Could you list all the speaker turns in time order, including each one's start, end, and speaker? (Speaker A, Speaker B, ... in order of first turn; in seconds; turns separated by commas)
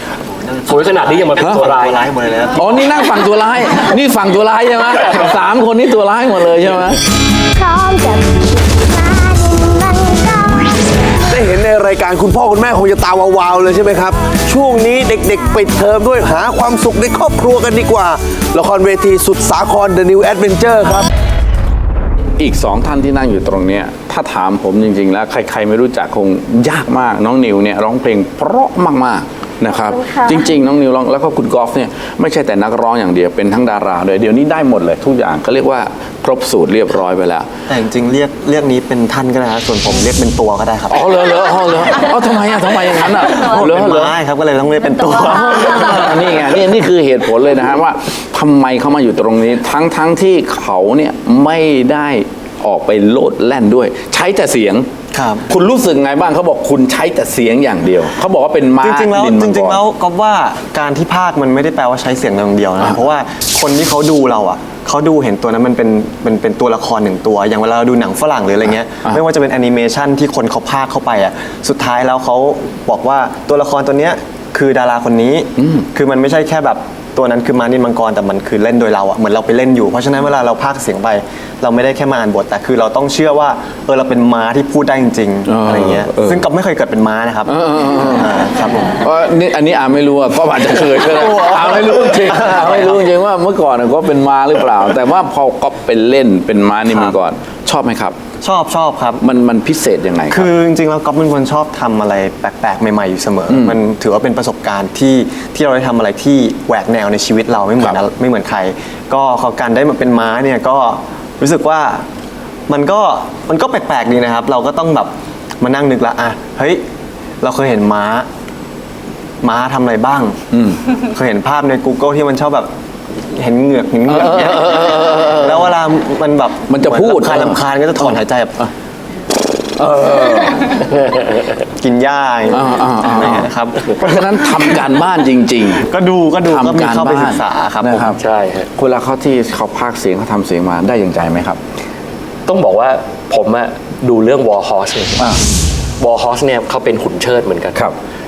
Speaker A: 0.3-2.9, Speaker B: 0.7-2.0, Speaker C: 2.5-7.0, Speaker D: 7.5-11.4, Speaker E: 11.3-21.1, Speaker C: 22.4-37.5, Speaker A: 37.7-41.4, Speaker C: 40.9-44.1, Speaker A: 43.4-46.4, Speaker C: 45.3-54.9, Speaker A: 55.1-55.5, Speaker C: 55.5-59.8, Speaker A: 58.8-89.0, Speaker C: 75.6-75.8, Speaker C: 85.5-86.5, Speaker C: 87.5-88.3, Speaker C: 89.0-98.2, Speaker A: 91.0-93.0, Speaker A: 96.9-97.2, Speaker A: 98.4-99.2, Speaker C: 99.2-100.5, Speaker A: 100.3-112.0, Speaker C: 103.5-103.8, Speaker A: 112.7-116.8, Speaker A: 117.4-118.3, Speaker A: 119.4-120.4, Speaker C: 120.5-120.8, Speaker A: 121.1-122.7, Speaker A: 123.3-128.6, Speaker C: 124.1-125.8, Speaker C: 126.7-128.7, Speaker C: 129.8-130.8, Speaker B: 130.9-131.5, Speaker A: 131.8-133.9, Speaker C: 132.5-135.9, Speaker A: 135.9-138.2, Speaker C: 136.4-138.2, Speaker B: 138.2-138.7, Speaker C: 138.8-141.6, Speaker B: 142.5-145.3, Speaker B: 146.0-147.8